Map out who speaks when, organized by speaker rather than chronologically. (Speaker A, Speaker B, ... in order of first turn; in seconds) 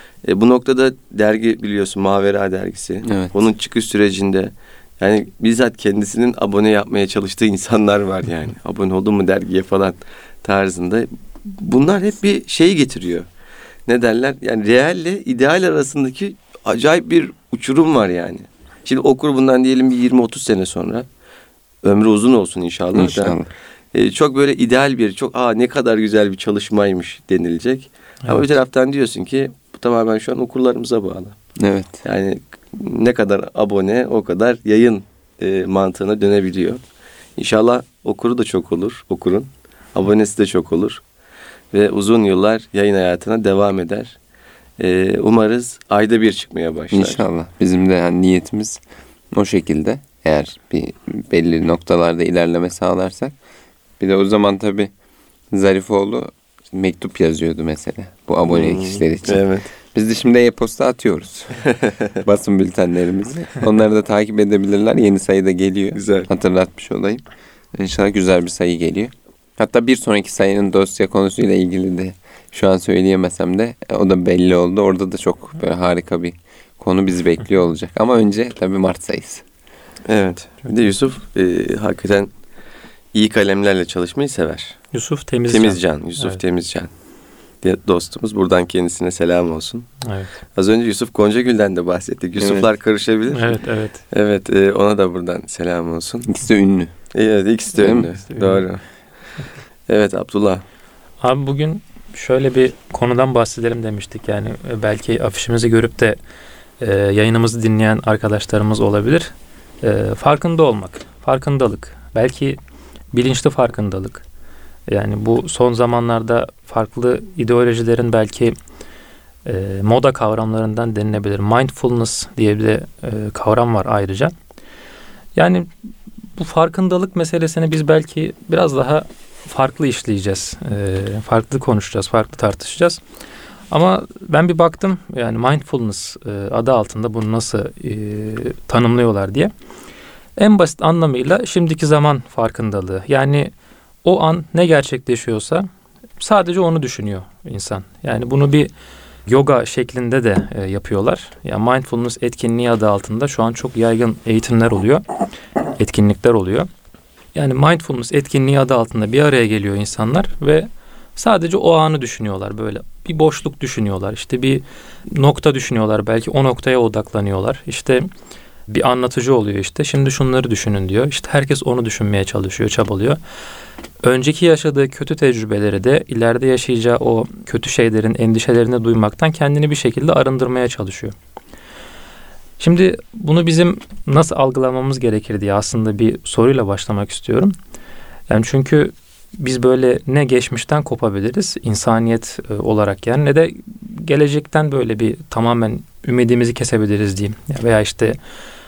Speaker A: 0.2-13.3, 13.9-21.1, 21.8-23.4, 23.9-31.4, 32.0-36.8, 37.4-41.0, 41.7-44.1, 44.8-47.2, 58.5-59.7, 61.6-62.2, 65.9-66.3, 80.1-82.3, 83.1-84.8, 85.5-86.9, 87.6-89.9, 90.5-93.5, 94.1-96.3, 97.1-98.8, 99.9-100.6
Speaker B: 3.0-3.3, 22.9-23.5, 31.6-32.0, 46.9-48.8, 49.3-53.3, 54.0-54.9, 55.5-59.4, 59.9-61.7, 62.2-67.2, 67.7-79.4, 92.4-92.7, 96.2-96.9, 97.8-98.1
Speaker C: 84.9-86.4, 90.0-90.3, 93.3-94.0, 98.3-98.6, 101.2-106.2, 106.8-112.6, 113.1-114.2, 114.9-118.5, 119.4-124.3, 125.3-125.7, 126.3-133.0, 133.7-139.5, 140.4-143.5, 144.0-145.7, 146.2-148.7, 149.2-155.0, 155.8-156.7, 157.3-168.1, 168.7-173.2, 174.0-181.1, 182.6-187.5, 188.3-198.2